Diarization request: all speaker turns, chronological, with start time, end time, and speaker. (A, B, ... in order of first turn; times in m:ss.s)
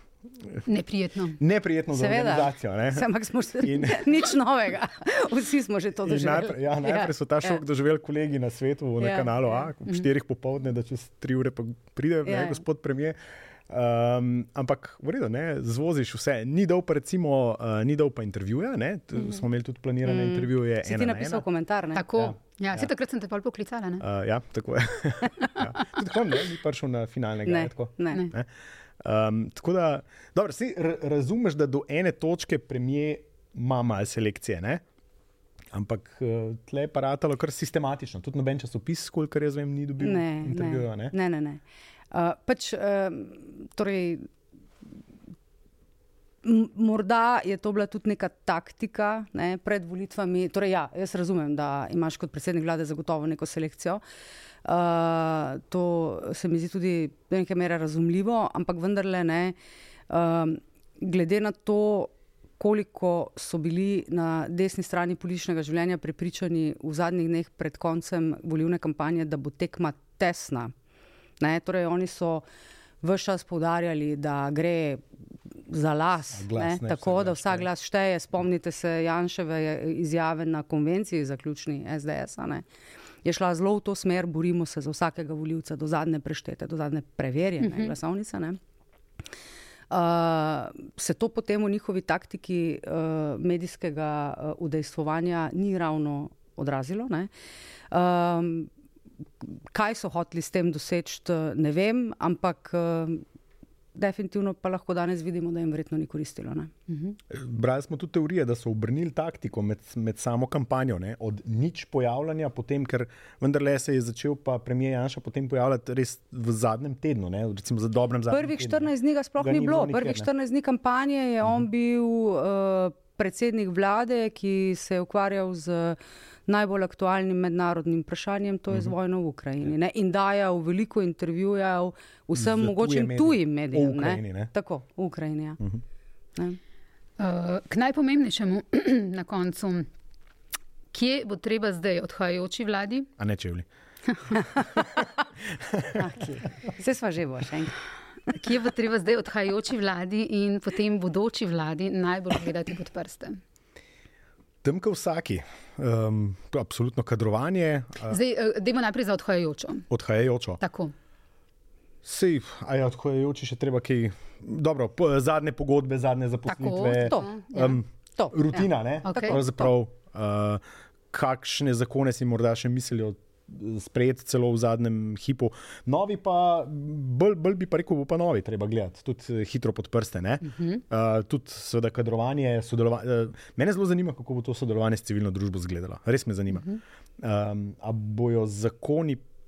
0:00.7-0:01.4 A
0:01.4-0:03.1 B
0:01.9-0:07.6 C
0:03.6-0:04.1 B
0:06.0-0:13.2 B
0:09.0-0:09.7 C
0:12.2-0:12.6 C
0:13.7-0:21.4 B
0:20.0-0:22.1 C
0:22.0-0:24.0 A
0:22.1-0:22.9 B
0:24.0-0:28.5 B
0:27.5-0:28.2 C
0:29.0-0:34.8 B
0:35.7-0:41.1 B
0:40.0-0:41.6 C
0:42.1-0:44.3 C
0:46.4-0:54.0 C
0:54.6-0:59.6 C
1:00.1-1:10.7 C
1:11.4-1:12.4 C
1:13.0-1:15.0 C
1:15.7-1:22.6 C
1:16.3-1:17.7 B
1:23.2-1:28.6 C
1:27.6-1:27.9 A
1:29.9-1:37.3 C
1:37.9-1:38.7 C
1:39.4-1:43.2 C
1:44.0-1:46.7 C
1:46.9-1:47.1 A
1:47.3-2:00.3 B
1:58.3-2:15.6 C
2:12.3-2:14.5 B
2:17.2-2:19.9 A
2:20.9-2:23.1 A
2:23.2-2:23.7 B
2:25.5-2:26.0 B
2:26.0-2:27.8 C
2:28.3-2:33.4 A
2:34.6-2:38.2 B
2:38.1-2:39.9 A
2:39.9-2:40.6 B
2:40.6-2:40.9 A
2:42.0-3:06.7 B
2:46.5-2:47.8 A
2:47.0-2:47.6 C
2:48.2-2:49.7 C
2:49.0-2:49.4 A
3:00.5-3:00.8 A
3:07.2-3:09.2 B